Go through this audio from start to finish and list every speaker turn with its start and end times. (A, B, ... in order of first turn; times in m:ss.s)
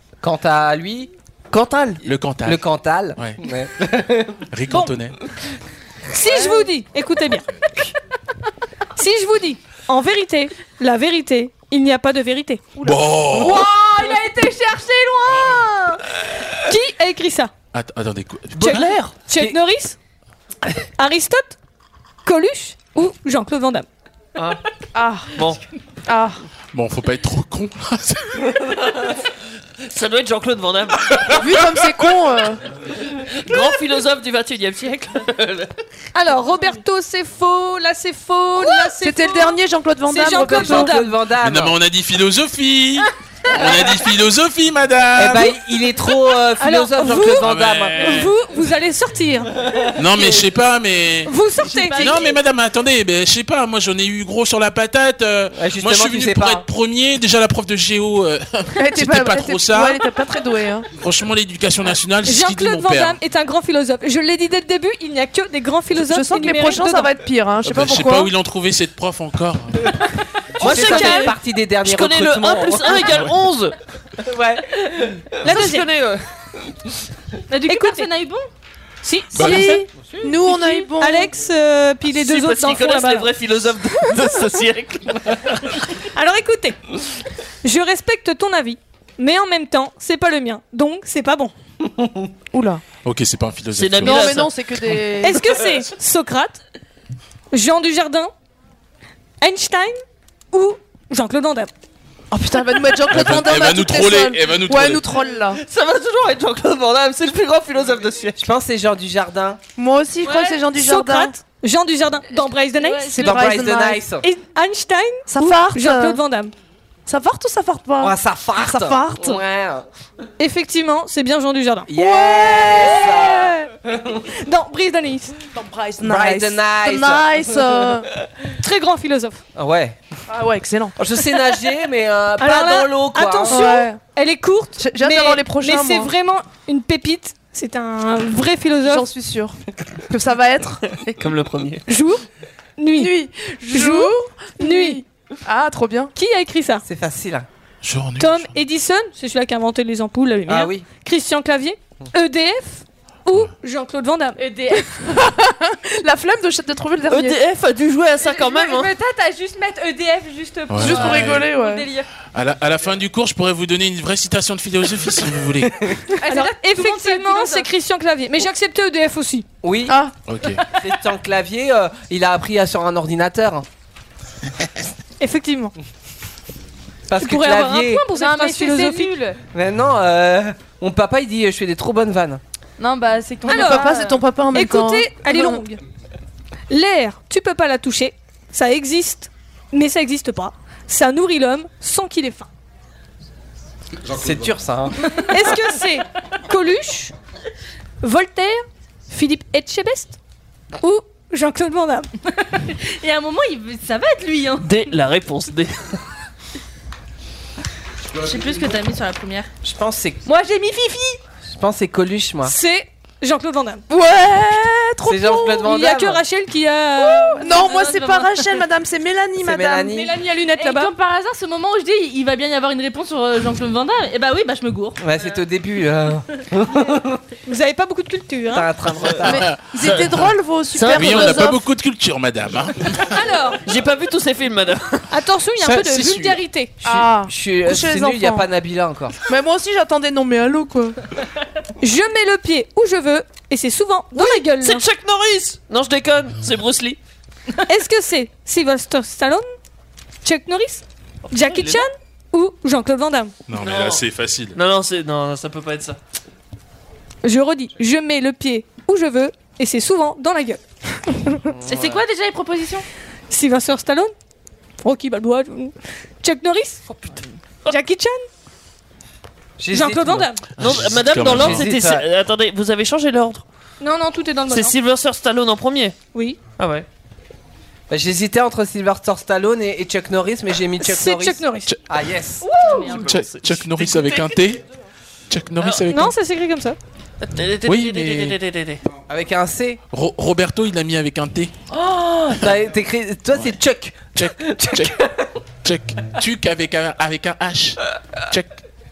0:00.2-0:04.9 A
0:02.0-0:02.6 B
0:04.5-0:05.2 B
0:06.1-0:07.4 C
0:09.0-0:12.8 C
0:12.8-0:13.7 B
0:12.9-0:16.0 D
0:16.6-0:17.5 C
0:17.7-0:19.1 B
0:18.6-0:19.6 A
0:18.6-0:20.0 C
0:21.0-0:21.6 C
0:22.2-0:23.9 C
0:24.9-0:25.4 E
0:26.1-0:26.4 E
0:26.7-0:28.4 B
0:29.9-0:31.1 F
0:31.4-0:32.6 E
0:33.2-0:35.7 F
0:36.1-0:41.2 C
0:39.0-0:41.0 E
0:40.5-0:41.8 A
0:41.3-0:45.6 B
0:45.1-0:48.3 A
0:46.6-0:49.5 C
0:47.4-0:48.3 B
0:50.0-0:51.3 B
0:51.2-0:52.4 C
0:51.9-1:00.0 B
0:55.5-0:56.6 A
0:58.8-1:00.8 E
1:01.0-1:03.2 B
1:02.2-1:07.1 C
1:05.9-1:08.3 E
1:07.6-1:09.8 B
1:10.6-1:13.7 F
1:10.6-1:13.3 A
1:10.6-1:11.3 C
1:14.2-1:15.2 A
1:15.4-1:15.9 C
1:15.4-1:16.2 F
1:17.5-1:18.4 D
1:17.7-1:18.1 C
1:19.0-1:19.8 C
1:19.3-1:19.7 B
1:19.3-1:21.3 E
1:20.4-1:23.3 C
1:22.1-1:25.7 F
1:26.1-1:26.8 C
1:27.6-1:31.5 C
1:32.5-1:32.8 E
1:33.0-1:34.5 B
1:33.8-1:34.5 F
1:34.0-1:35.5 E
1:35.2-1:36.6 C
1:37.5-1:38.3 C
1:39.4-1:39.9 C
1:40.5-1:41.7 C
1:42.3-1:45.6 E
1:43.1-1:45.1 B
1:45.6-1:48.4 F
1:48.4-1:49.6 A
1:49.8-1:51.3 E
1:50.2-1:50.6 D
1:50.7-1:53.4 C
1:52.8-1:53.2 D
1:53.1-1:54.0 E
1:53.2-1:54.3 A
1:54.2-1:56.5 C
1:55.3-1:56.2 E
1:57.1-1:59.4 E
1:58.0-1:59.9 A
2:00.4-2:02.0 C
2:01.9-2:04.0 A
2:02.0-2:02.9 E
2:02.6-2:03.7 C
2:04.4-2:05.3 C
2:05.5-2:08.1 E
2:06.0-2:07.8 A
2:08.6-2:09.4 C
2:09.5-2:10.0 A
2:10.3-2:11.0 E
2:11.0-2:13.6 A
2:12.4-2:19.1 C
2:13.5-2:14.0 E
2:14.8-2:16.1 E
2:18.8-2:19.5 E
2:20.1-2:20.8 E
2:21.0-2:21.8 F
2:21.9-2:22.2 C
2:22.8-2:23.2 C
2:23.0-2:26.1 E
2:23.7-2:25.0 C
2:26.1-2:26.8 C
2:26.8-2:27.5 A
2:27.8-2:28.5 B
2:28.2-2:34.4 C
2:30.5-2:30.8 A
2:34.4-2:34.8 G
2:34.5-2:34.7 D
2:35.2-2:37.4 E
2:37.1-2:38.9 F
2:38.2-2:42.0 G
2:40.7-2:41.5 B
2:40.7-2:41.8 D
2:40.8-2:41.8 E
2:42.3-2:45.8 B
2:46.2-2:47.6 G
2:46.2-2:49.4 C
2:49.6-2:50.0 A
2:50.3-2:50.6 B
2:50.7-2:53.6 A
2:55.2-2:55.7 C
2:57.1-2:58.0 A
2:57.2-2:59.1 C
2:58.1-2:59.3 D
2:58.5-2:59.2 G
2:59.5-3:02.4 A
3:02.8-3:03.7 G
3:02.8-3:04.2 D
3:03.5-3:04.0 C
3:03.5-3:05.6 E
3:04.5-3:05.8 C
3:06.7-3:12.5 C
3:14.1-3:15.1 A
3:15.2-3:17.1 C
3:18.0-3:20.2 C
3:20.8-3:22.1 C
3:22.7-3:24.7 D
3:24.6-3:26.0 F
3:28.2-3:29.5 D
3:29.6-3:30.2 A
3:30.2-3:31.2 G
3:31.5-3:32.6 A
3:32.4-3:33.8 C
3:33.9-3:35.6 E
3:35.0-3:36.2 A
3:35.6-3:37.7 C
3:37.4-3:40.0 E
3:37.5-3:38.4 D
3:39.4-3:40.1 A
3:40.0-3:40.9 C
3:40.5-3:45.0 D
3:45.0-3:47.2 A
3:47.5-3:48.7 C
3:48.5-3:49.4 A
3:49.2-3:51.6 E
3:49.3-3:50.2 B
3:49.8-3:50.1 F
3:50.7-3:51.5 F
3:50.9-3:53.2 B
3:53.1-3:53.6 C
3:53.6-3:55.1 F
3:55.1-3:56.8 C
3:55.6-3:56.3 B
3:56.8-3:59.2 A
3:56.8-3:58.4 E
3:59.3-4:00.9 E
4:01.8-4:04.8 C
4:04.2-4:07.0 F
4:07.7-4:09.4 C
4:10.2-4:13.3 C
4:11.2-4:11.8 F
4:13.5-4:14.6 B
4:13.6-4:14.0 F
4:14.5-4:16.0 F
4:17.2-4:21.4 C
4:21.5-4:22.0 A
4:21.6-4:22.8 D
4:23.3-4:24.1 C
4:24.8-4:26.8 C
4:27.7-4:28.2 C
4:29.6-4:30.3 A
4:29.7-4:30.4 C
4:30.6-4:31.7 B
4:30.6-4:33.4 F
4:31.2-4:32.0 A
4:33.8-4:34.7 C
4:34.5-4:36.0 F
4:36.1-4:36.4 C
4:36.6-4:36.8 F
4:37.9-4:42.4 A
4:40.8-4:41.8 C
4:42.6-4:44.3 F
4:42.9-4:44.6 B
4:45.3-4:46.1 B
4:45.6-4:45.8 F
4:45.9-4:46.8 C
4:47.2-4:48.8 F
4:47.6-4:48.4 B
4:49.1-4:49.8 A
4:49.9-4:51.5 B
4:51.7-4:55.1 A
4:54.1-4:55.0 B
4:55.6-4:57.8 B
4:58.3-4:58.6 B